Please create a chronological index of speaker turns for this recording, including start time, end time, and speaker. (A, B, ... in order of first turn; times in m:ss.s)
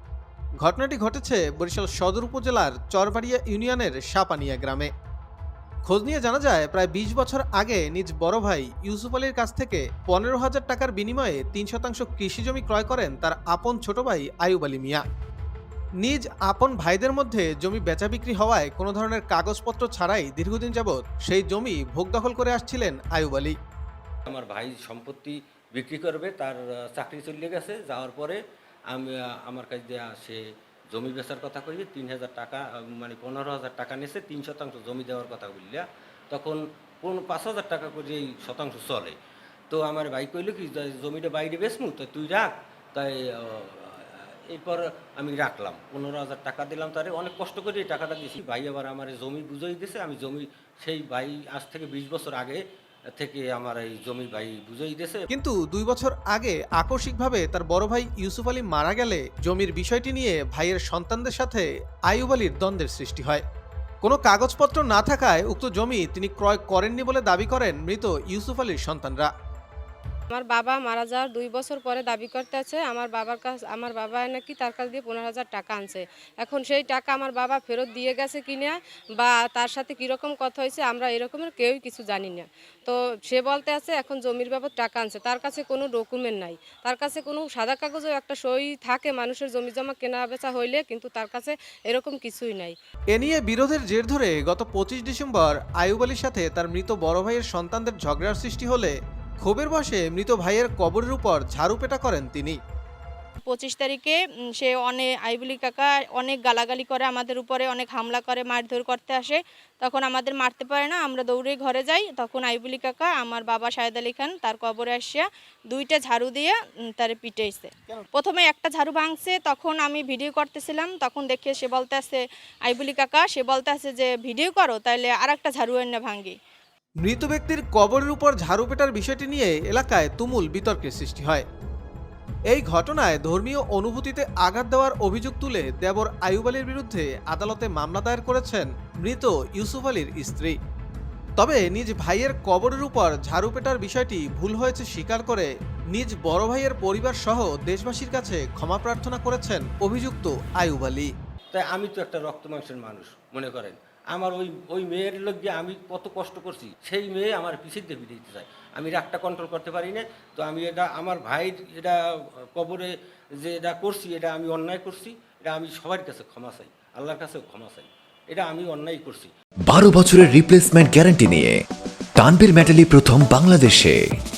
0:00.6-0:04.9 A
0:05.9-0:15.0 A
0:16.0-0:23.6 A
0:24.3-0:28.4 B
0:28.9-0:39.2 B
0:39.7-0:52.6 B
0:53.2-0:55.3 B
0:55.3-1:03.4 A
1:04.0-1:09.3 A
1:10.3-1:32.8 C
1:33.1-1:42.6 A
1:43.4-2:06.4 D
2:07.0-2:11.4 A
2:12.5-2:20.6 A
2:21.4-2:31.1 A
2:31.5-2:49.3 B
2:49.7-2:51.6 E
2:52.2-2:54.0 E